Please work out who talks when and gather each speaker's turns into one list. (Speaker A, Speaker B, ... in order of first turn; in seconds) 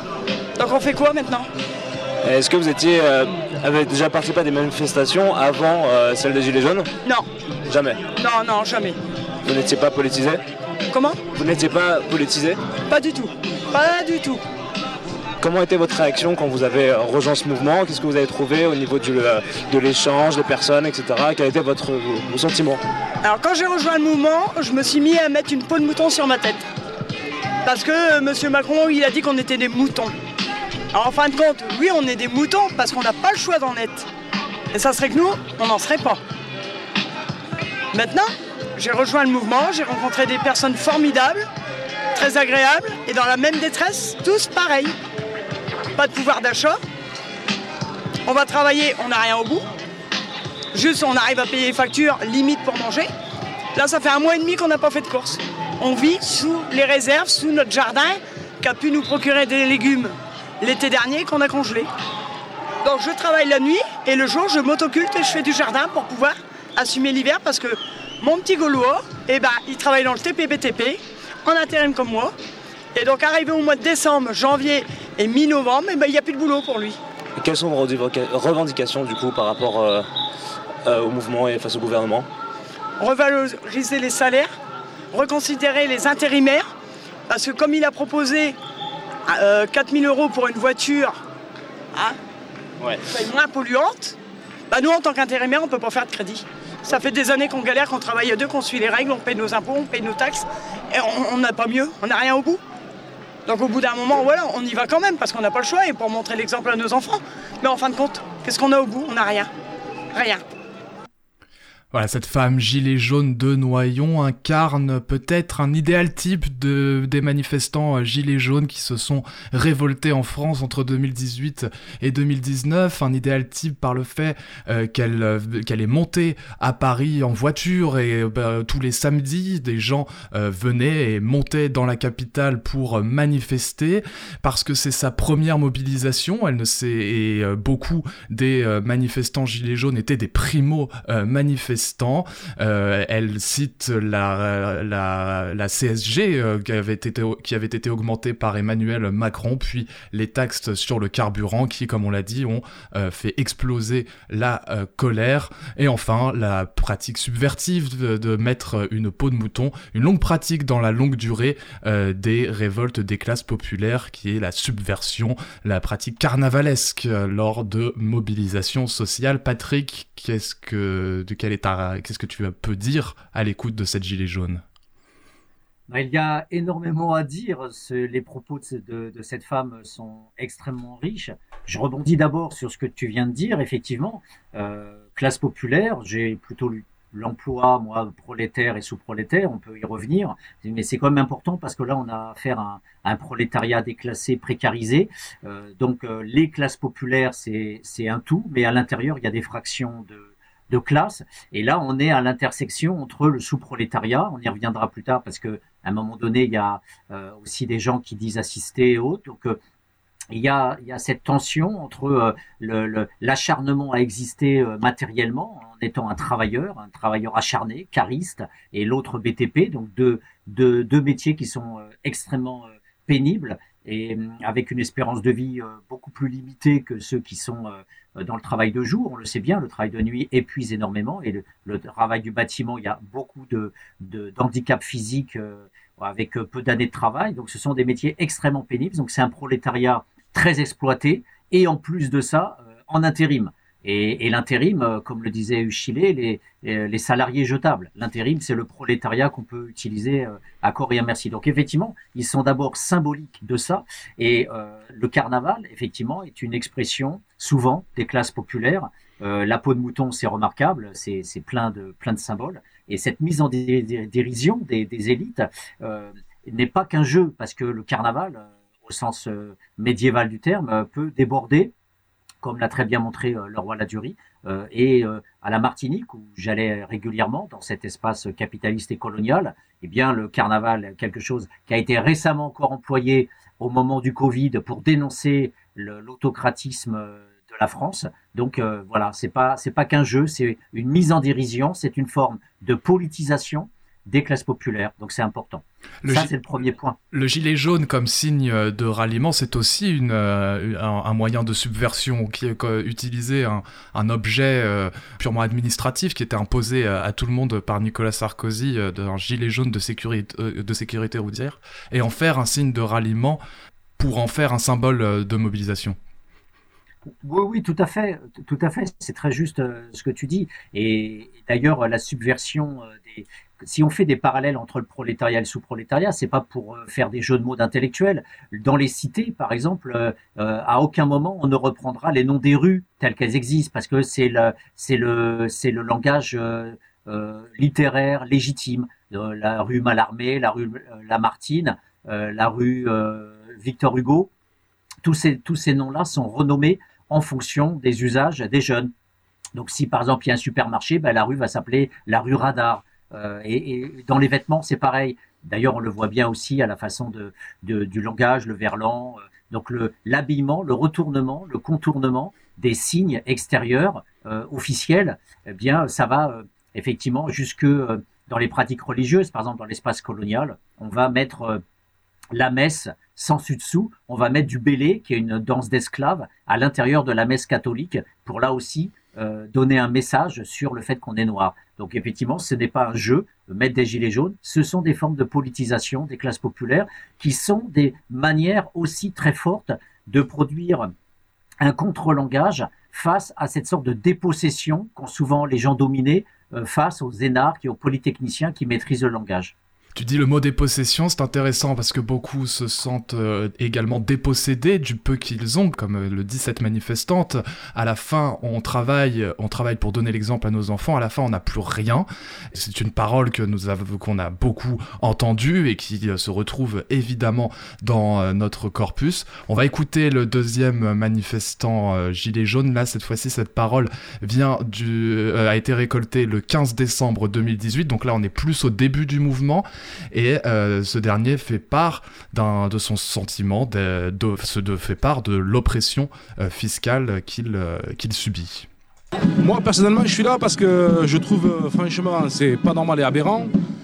Speaker A: 0.6-1.5, 8.2-9.0, 10.9-11.2, 12.9-14.4, 23.2-26.7, 27.6-30.1, 30.9-34.1, 34.7-36.2, 37.9-41.5, 42.1-44.9, 46.0-46.8, 48.3-49.7, 50.7-53.1, 53.8-61.9, 62.8-72.3, 73.0-77.0, 83.0-84.5, 85.1-86.7, 87.3-88.6, 89.3-91.2, 93.0-94.2, 94.7-102.6, 103.5-109.5, 110.1-110.4
Speaker B: 2.2-6.9, 7.7-8.0, 9.4-10.4, 11.3-12.6, 15.4-22.8, 77.4-80.1, 80.8-82.3
Speaker C: 111.9-174.6, 296.0-296.3, 297.1-313.4, 314.0-316.0, 399.9-438.7
Speaker D: 175.9-209.6, 210.3-271.7, 272.4-297.0, 317.2-344.3, 345.0-348.9, 349.6-371.6, 372.3-390.9, 391.6-399.5
Speaker E: 439.4-443.5